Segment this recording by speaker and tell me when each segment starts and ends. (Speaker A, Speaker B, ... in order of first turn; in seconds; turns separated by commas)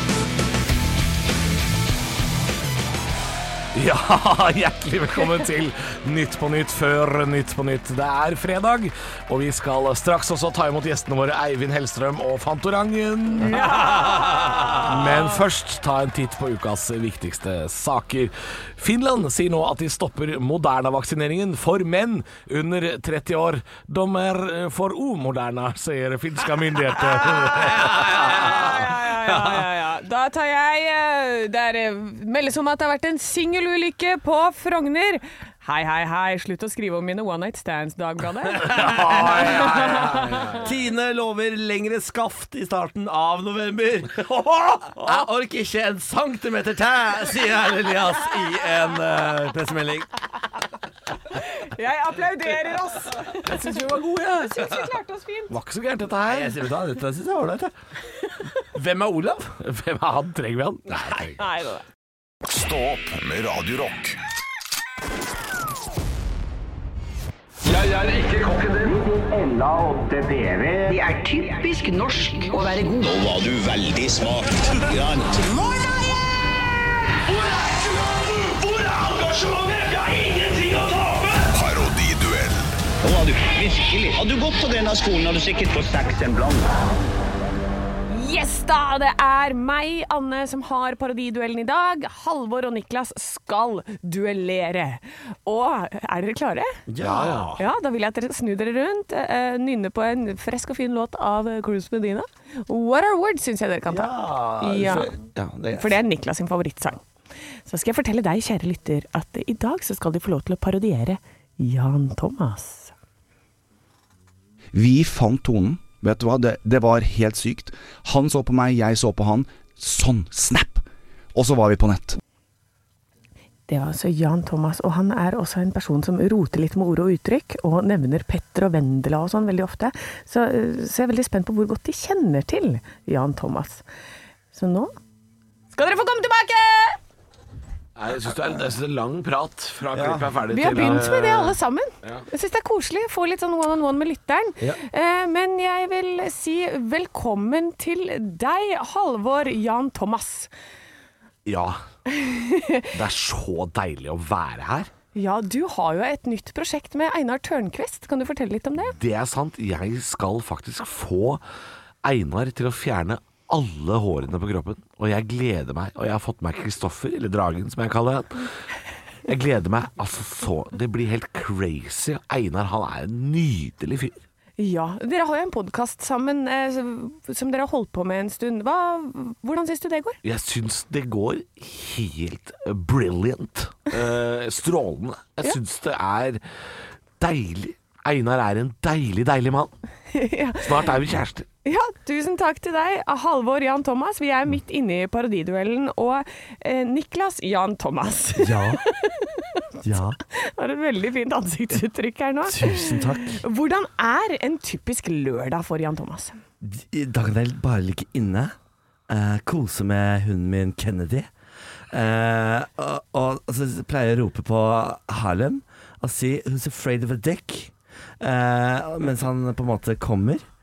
Speaker A: 3.7-14.2, Speaker B: 13.5-14.9, Speaker A: 14.8-28.6, Speaker C: 27.2-28.8, Speaker B: 28.1-40.6, Speaker C: 38.5-50.1, Speaker A: 38.7-40.7, Speaker B: 51.3-55.6, Speaker A: 53.3-54.9, Speaker A: 55.5-56.6, Speaker C: 56.2-57.7, Speaker C: 58.7-59.6, Speaker A: 59.6-61.4, Speaker B: 61.4-61.8, Speaker D: 62.4-64.2, Speaker E: 68.9-75.7, Speaker E: 78.4-81.4, Speaker D: 81.5-82.8, Speaker E: 83.0-86.8, Speaker B: 88.1-96.8, Speaker C: 96.9-97.6, Speaker A: 97.0-97.6, Speaker B: 97.6-105.1, Speaker C: 103.9-106.0, Speaker B: 105.8-107.0, Speaker B: 107.7-112.9, Speaker F: 114.7-122.2, Speaker B: 123.7-133.8, Speaker B: 134.5-134.9, Speaker B: 135.7-137.0, Speaker A: 138.0-142.3, Speaker C: 139.9-140.3, Speaker B: 140.5-150.5, Speaker A: 151.5-151.8, Speaker B: 152.1-152.9, Speaker A: 152.9-154.9, Speaker B: 155.1-158.9, Speaker A: 158.9-161.4, Speaker A: 162.0-168.5, Speaker A: 169.3-174.2, Speaker B: 174.6-180.2, Speaker A: 180.2-186.4, Speaker A: 187.2-189.7, Speaker B: 190.1-190.9, Speaker A: 190.6-191.5, Speaker B: 191.7-199.6, Speaker C: 198.4-198.8, Speaker C: 199.8-200.2, Speaker B: 200.3-206.4, Speaker C: 202.5-203.4, Speaker C: 206.6-208.5, Speaker C: 209.1-211.3, Speaker C: 211.9-220.4